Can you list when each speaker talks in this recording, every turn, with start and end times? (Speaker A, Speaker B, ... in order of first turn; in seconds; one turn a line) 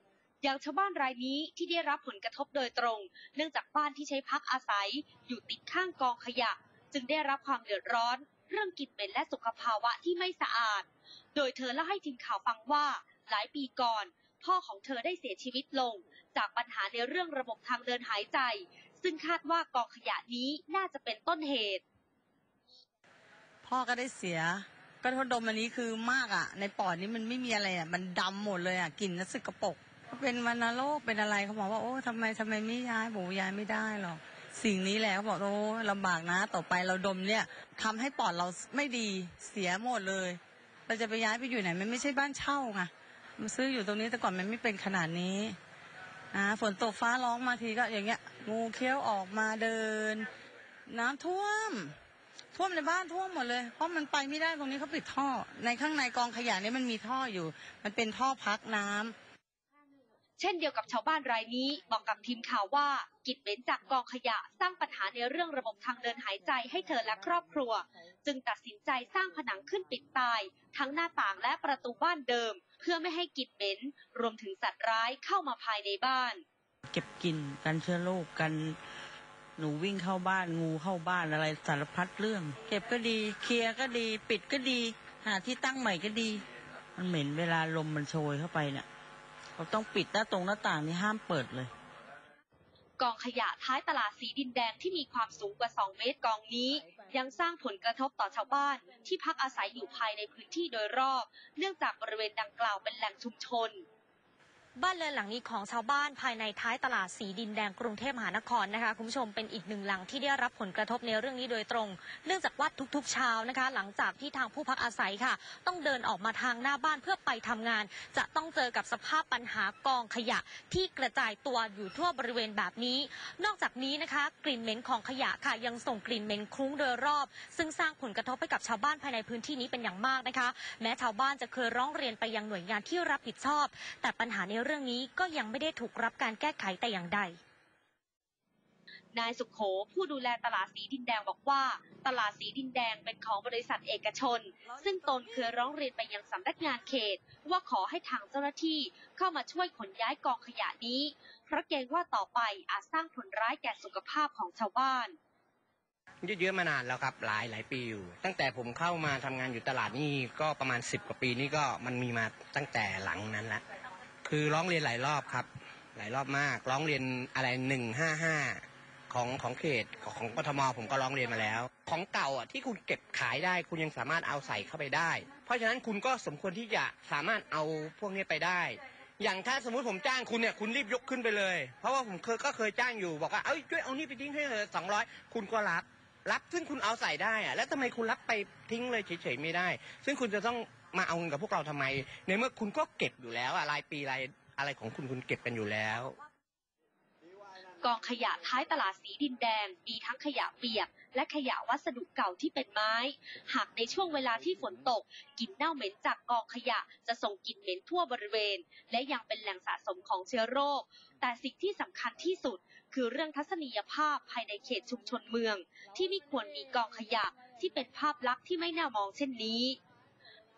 Speaker A: 0.4-21.8
Speaker B: 23.6-45.6
Speaker B: 46.3-50.3
Speaker B: 50.9-51.9
Speaker B: 52.5-59.1
Speaker A: 60.4-76.4
Speaker C: 76.9-78.8
Speaker C: 79.6-86.4
Speaker C: 87.0-88.9
Speaker C: 89.6-91.7
Speaker A: 93.0-103.8
Speaker D: 104.8-137.4
Speaker A: 139.1-155.2
Speaker E: 156.2-163.6
Speaker E: 164.2-196.2
Speaker A: 197.8-219.8